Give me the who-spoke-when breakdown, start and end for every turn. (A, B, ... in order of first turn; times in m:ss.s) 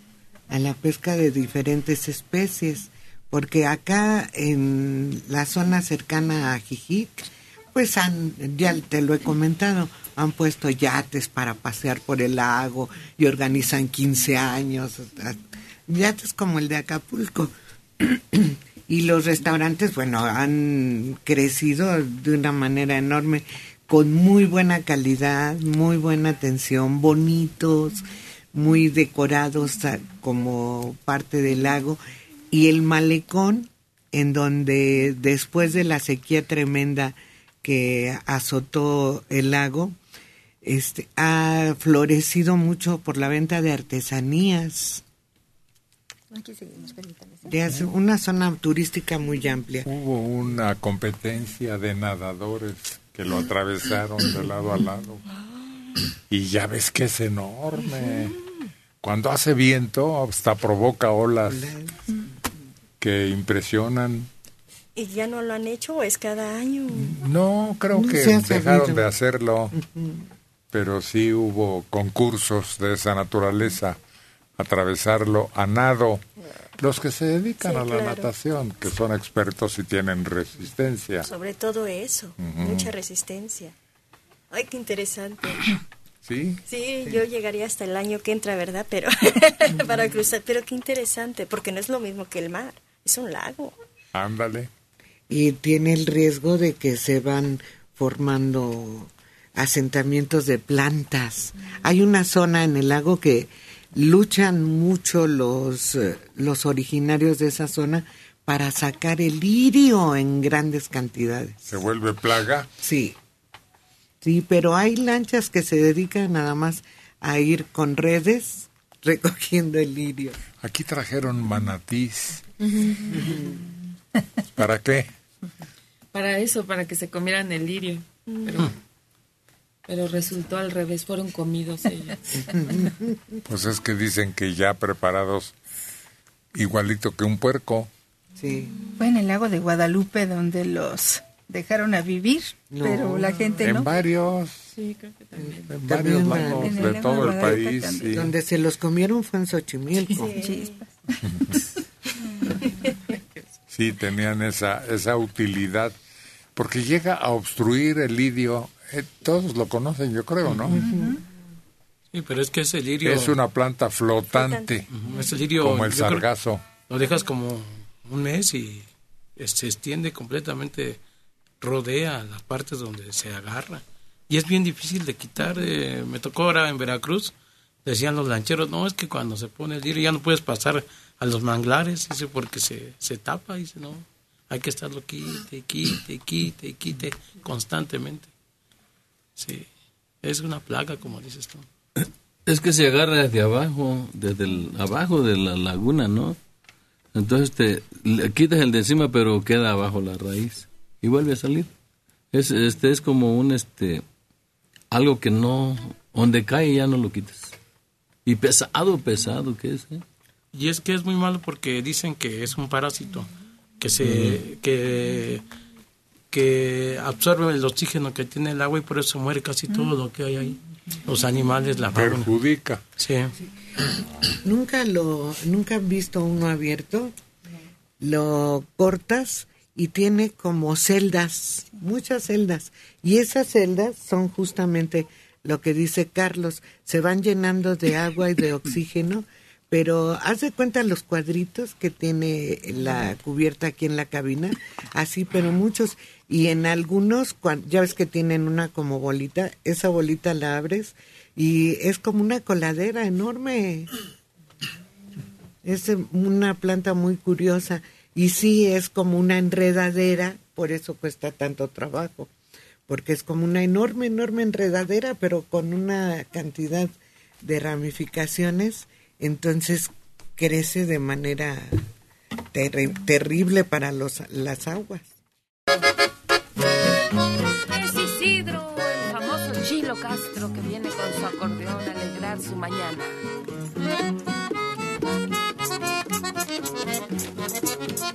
0:00.5-0:32.0 A
0:32.5-0:40.0 A
0:40.6-0:45.0 A
0:46.6-0:47.3 B
0:47.4-0:49.9 A
0:49.8-0:55.2 C
0:56.3-0:58.4 C
0:59.0-1:01.7 C
1:01.5-1:01.9 A
1:03.0-1:04.3 C
1:05.0-1:07.2 D
1:06.9-1:09.7 C
1:07.9-1:09.1 A
1:09.7-1:10.3 A
1:10.7-1:14.0 C
1:14.6-1:16.2 C
1:16.8-1:21.3 C
1:17.6-1:18.3 D
1:21.2-1:23.7 D
1:22.4-1:22.9 C
1:24.5-1:25.8 D
1:26.2-1:26.6 C
1:26.7-1:33.8 D
1:34.1-1:34.7 C
1:35.3-1:51.6 A
1:51.7-1:52.7 C
1:52.8-1:53.2 A
1:54.2-2:00.4 A
2:00.6-2:02.4 C
2:04.6-2:05.1 C
2:06.1-2:08.7 E
2:08.3-2:08.6 D
2:09.9-2:12.2 E
2:12.5-2:13.2 A
2:13.5-2:15.5 C
2:16.5-2:17.9 C
2:18.4-2:18.7 A
2:19.0-2:23.9 B
2:22.7-2:23.7 A
2:23.6-2:24.7 C
2:25.4-2:26.9 A
2:25.7-2:28.3 C
2:26.2-2:28.2 B
2:28.1-2:30.4 A
2:30.2-2:30.8 D
2:30.4-2:30.8 B
2:33.7-2:35.9 C
2:36.6-2:40.8 C
2:40.4-2:40.7 F
2:40.7-2:41.1 A
2:40.8-2:41.1 B
2:42.1-2:43.4 F
2:43.0-2:44.9 C
2:44.3-2:44.7 D
2:44.9-2:46.2 F
2:45.6-2:46.6 C
2:46.9-2:51.0 F
2:51.6-2:57.3 F
2:57.8-3:08.3 F
3:09.4-3:09.7 F
3:10.2-3:11.7 F
3:12.5-3:16.4 G
3:17.1-3:21.7 G
3:22.3-3:24.0 G
3:24.9-3:27.5 G
3:28.2-3:30.0 G
3:30.5-3:35.4 F
3:34.0-3:34.4 G
3:36.3-3:42.3 F
3:41.9-3:42.8 C
3:43.0-3:43.3 F
3:44.4-3:47.1 A
3:48.0-4:13.9 A
4:15.6-4:22.3 A
4:22.9-4:31.9 A
4:32.5-4:35.1 A
4:37.7-4:43.2 E